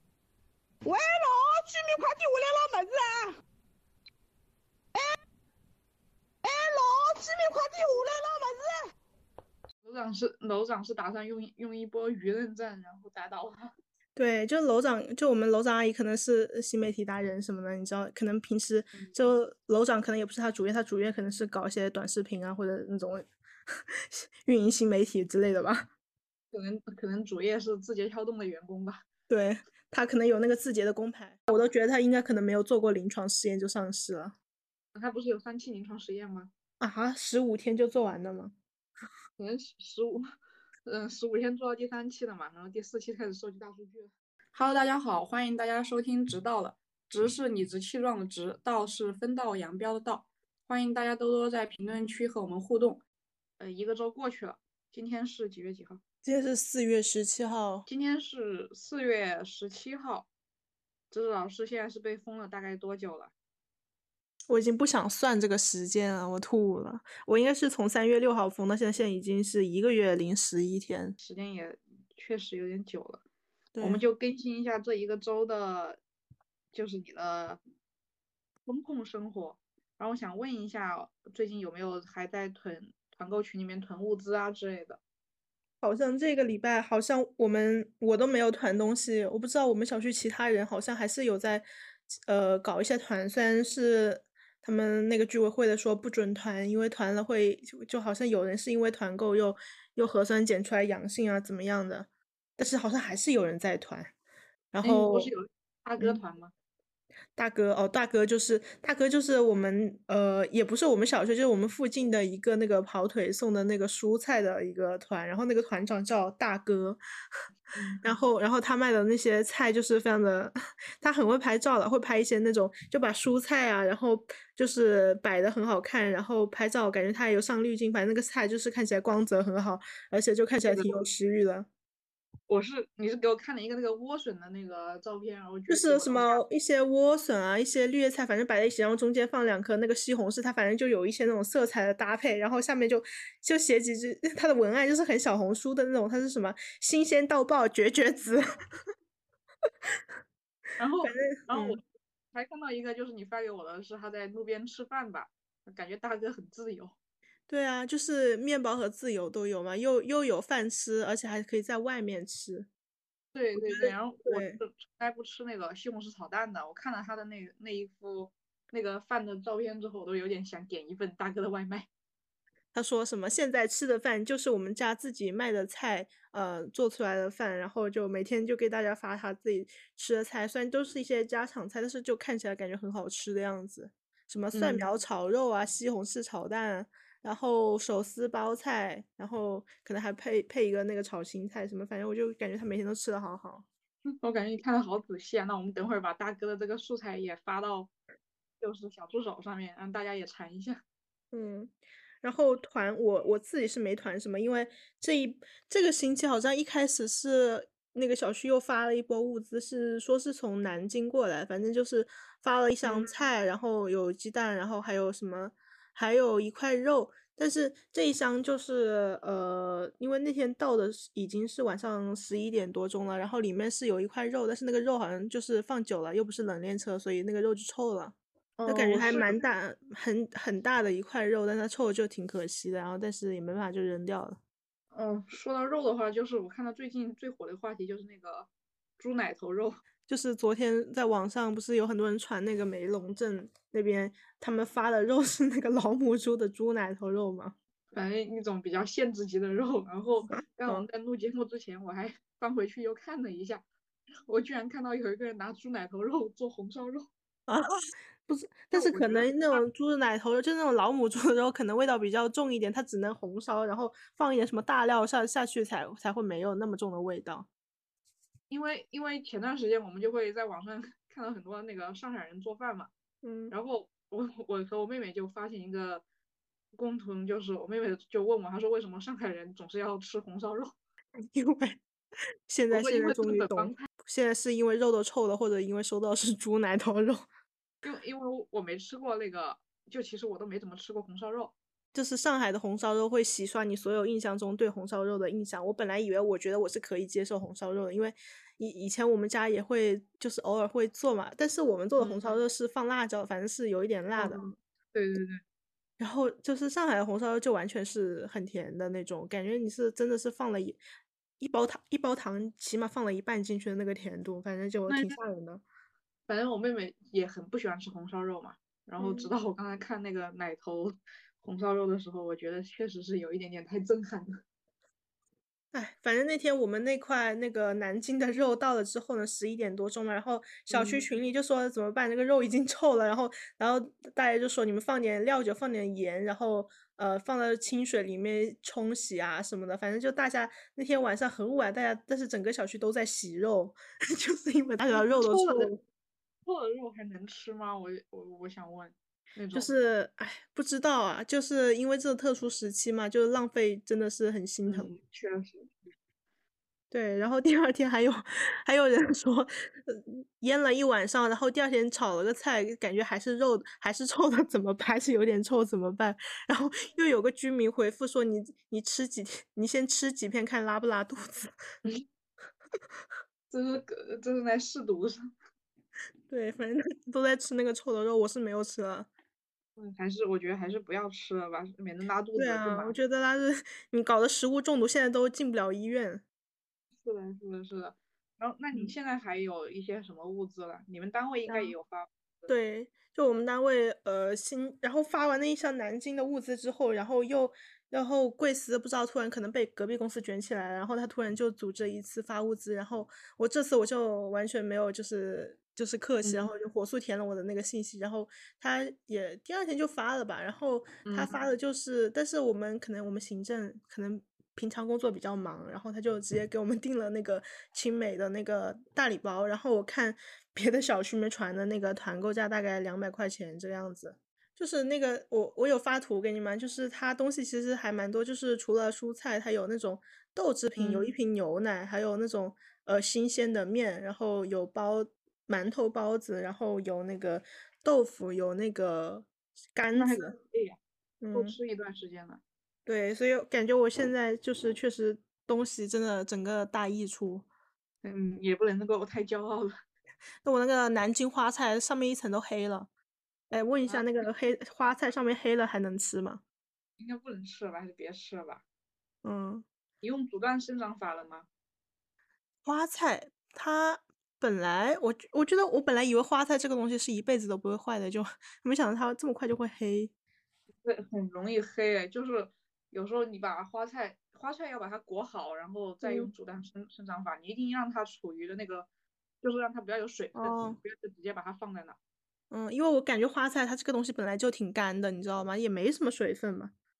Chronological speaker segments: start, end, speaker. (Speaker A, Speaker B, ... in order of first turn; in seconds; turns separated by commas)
Speaker A: 0.8-3.3, Speaker A: 6.4-8.9, Speaker B: 9.8-13.7, Speaker C: 14.1-23.3, Speaker C: 23.9-25.9, Speaker B: 26.5-29.1, Speaker C: 29.3-34.4, Speaker B: 34.9-36.5, Speaker C: 36.8-38.5, Speaker B: 39.4-40.2, Speaker B: 40.8-53.0, Speaker B: 53.6-56.0, Speaker C: 56.2-57.9, Speaker B: 57.9-60.3, Speaker B: 61.1-63.3, Speaker C: 64.5-71.2, Speaker B: 71.2-73.2, Speaker C: 73.7-74.0, Speaker B: 73.8-76.0, Speaker B: 76.7-77.6, Speaker B: 78.7-85.0, Speaker C: 85.8-91.7, Speaker C: 92.3-104.1, Speaker C: 104.7-105.3, Speaker B: 104.8-106.5, Speaker C: 107.3-117.0, Speaker B: 117.7-118.2, Speaker C: 118.0-131.7, Speaker B: 130.6-130.9, Speaker B: 132.5-136.4, Speaker C: 135.7-148.4, Speaker B: 150.8-151.8, Speaker C: 151.0-151.8, Speaker B: 152.3-156.9, Speaker C: 157.5-162.7, Speaker B: 163.3-171.9, Speaker C: 163.6-164.6, Speaker C: 172.7-193.7, Speaker B: 184.5-184.8, Speaker B: 194.2-197.9, Speaker B: 198.6-200.8, Speaker C: 201.3-234.4, Speaker B: 212.8-213.2, Speaker B: 228.6-229.4, Speaker B: 234.9-239.8, Speaker C: 240.1-247.5, Speaker B: 247.9-253.6, Speaker C: 250.3-250.8, Speaker B: 254.3-257.1, Speaker C: 258.3-267.5, Speaker B: 258.7-259.6, Speaker B: 268.5-272.9, Speaker C: 273.2-273.5, Speaker B: 273.5-276.0, Speaker B: 276.7-280.7, Speaker C: 281.3-281.8, Speaker C: 282.5-287.2, Speaker B: 282.7-283.9, Speaker B: 287.8-291.5, Speaker C: 291.9-304.5, Speaker B: 302.0-302.4, Speaker B: 304.1-305.4, Speaker C: 306.0-310.8, Speaker C: 311.4-315.6, Speaker B: 314.9-315.2, Speaker B: 316.3-324.4, Speaker C: 319.0-319.3, Speaker C: 325.7-345.8, Speaker B: 330.7-331.0, Speaker B: 344.9-345.7, Speaker B: 346.4-349.7, Speaker C: 349.5-354.9, Speaker B: 354.6-355.7, Speaker C: 356.9-371.5, Speaker B: 373.5-375.2, Speaker C: 376.3-379.1, Speaker B: 379.8-383.0, Speaker C: 382.4-386.2, Speaker B: 387.0-392.5, Speaker C: 391.5-391.7, Speaker C: 392.5-440.3, Speaker B: 406.2-406.5, Speaker B: 411.0-411.3, Speaker B: 430.8-431.1, Speaker B: 439.9-440.8, Speaker C: 441.2-441.6, Speaker B: 441.3-442.4, Speaker C: 442.9-447.5, Speaker B: 448.0-449.7, Speaker C: 450.4-452.9, Speaker C: 453.5-456.4, Speaker B: 453.9-454.2, Speaker B: 457.0-458.6, Speaker C: 459.2-459.6, Speaker B: 460.0-461.5, Speaker C: 462.6-470.1, Speaker B: 470.8-478.9, Speaker C: 476.0-476.3, Speaker B: 479.4-482.0, Speaker C: 480.3-480.8, Speaker C: 482.5-486.7